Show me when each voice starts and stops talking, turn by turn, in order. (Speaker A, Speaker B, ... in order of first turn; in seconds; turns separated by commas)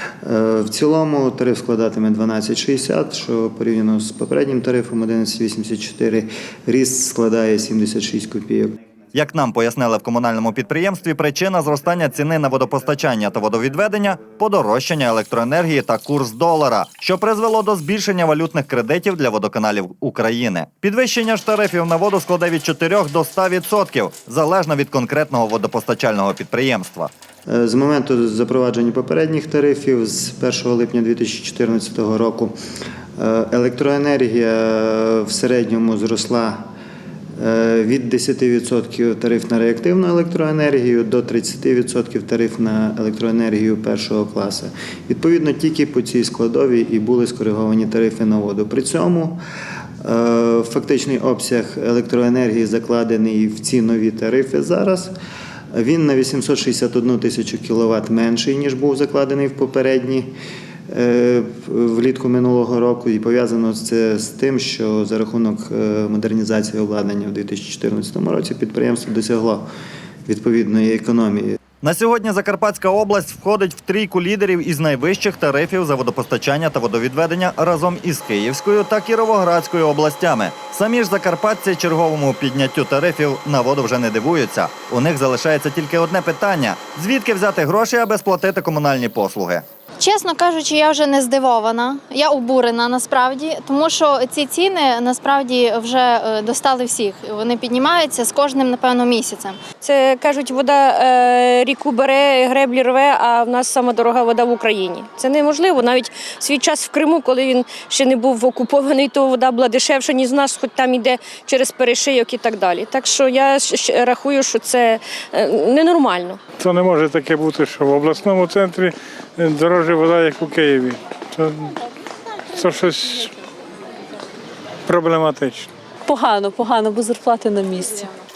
Speaker A: 0.2-8.8, Speaker B: 9.1-27.1, Speaker A: 27.5-32.5, Speaker A: 33.2-36.7, Speaker A: 37.4-49.4, Speaker A: 50.0-55.1, Speaker A: 55.7-60.3, Speaker A: 60.9-69.7, Speaker A: 70.3-71.6, Speaker B: 71.8-89.7, Speaker C: 90.0-99.6, Speaker D: 99.8-116.4, Speaker E: 116.6-121.7, Speaker E: 122.5-123.3, Speaker E: 124.9-125.7, Speaker F: 126.0-128.1